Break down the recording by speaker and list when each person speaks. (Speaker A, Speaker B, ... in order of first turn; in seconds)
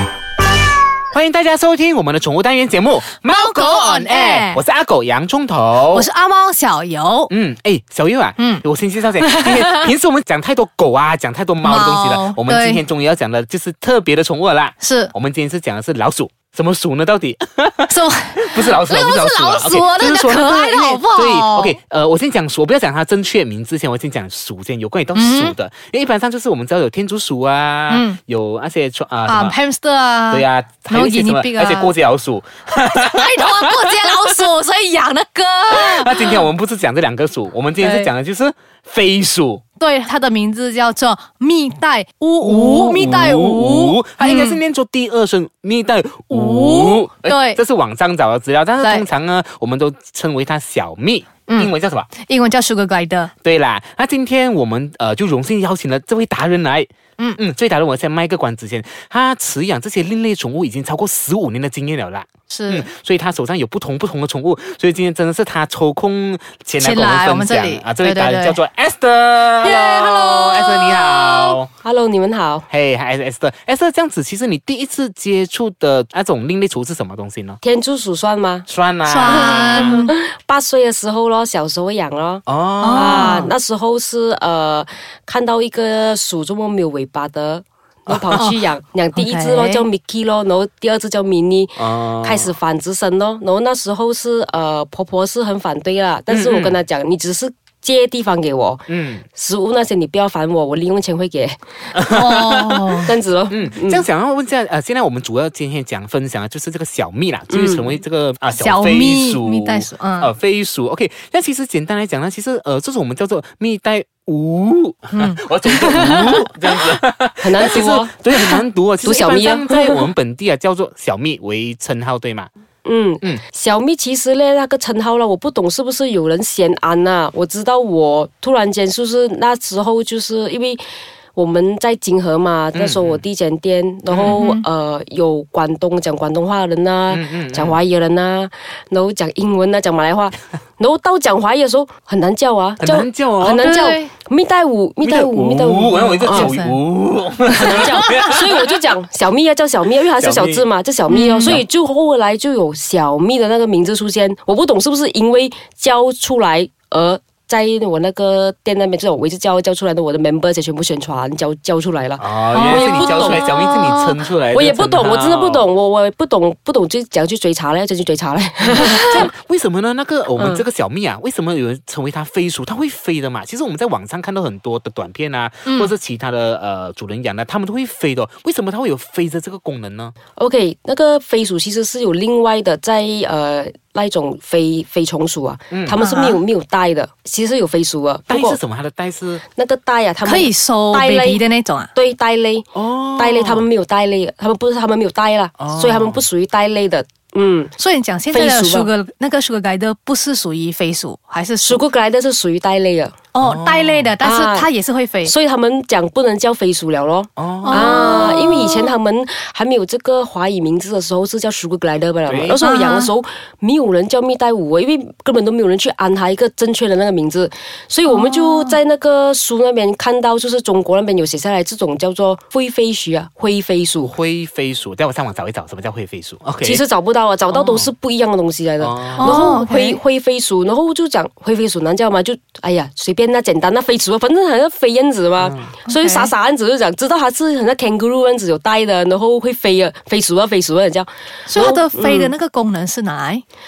Speaker A: 1.1-6.1, 7.3-29.6, 30.3-34.3, 35.7-39.6, 42.4-52.1, 53.4-71.7, 72.7-77.6, 78.7-80.0, 82.5-83.5, 88.1-88.4, 91.8-92.5, 96.3-96.8, 98.9-99.3, 101.9-122.5, 132.7-133.2, 134.1-134.5, 137.1-137.8, 142.8-143.8, 145.0-148.8, 150.1-150.7, 162.2-165.7, 168.6-180.2, 185.7-186.0, 188.3-189.4, 192.7-193.7, 195.6-196.2, 203.4-204.1, 207.4-208.7, 212.3-212.6, 224.0-226.8, 227.5-227.9, 228.8-229.6, 235.4-235.8
Speaker B: 3.1-4.6, 5.9-7.3, 8.4-8.6, 9.2-9.9, 11.6-12.8, 14.8-15.1, 17.9-21.8, 25.1-25.6, 27.9-28.2, 29.3-31.9, 32.7-36.5, 37.8-38.1, 39.8-44.6, 46.3-47.6, 48.8-49.1, 51.5-53.3, 62.5-62.9, 66.8-68.6, 69.6-71.6, 79.1-80.1, 82.8-83.5, 88.4-88.7, 89.2-89.8, 102.1-103.1, 108.5-110.3, 115.1-116.6, 134.3-134.7, 143.6-144.1, 145.9-146.8, 151.1-151.6, 162.5-164.2, 168.8-169.3, 175.7-175.9, 186.0-186.4, 190.2-191.9, 197.8-201.8, 203.3-205.3, 207.6-208.9, 212.6-213.1, 218.1-218.8, 229.2-230.0, 235.9-236.3, 241.5-243.4
Speaker C: 71.8-72.7, 77.6-78.7, 79.2-101.6, 103.0-104.1, 107.5-108.0, 117.4-118.2, 119.0-120.1, 122.8-130.8, 131.3-146.5, 147.5-163.5, 164.5-169.3, 170.4-170.7, 180.4-188.6, 189.5-191.4, 191.9-197.8, 198.3-198.9, 201.6-203.2, 204.2-204.7, 205.2-224.1, 226.6-242.3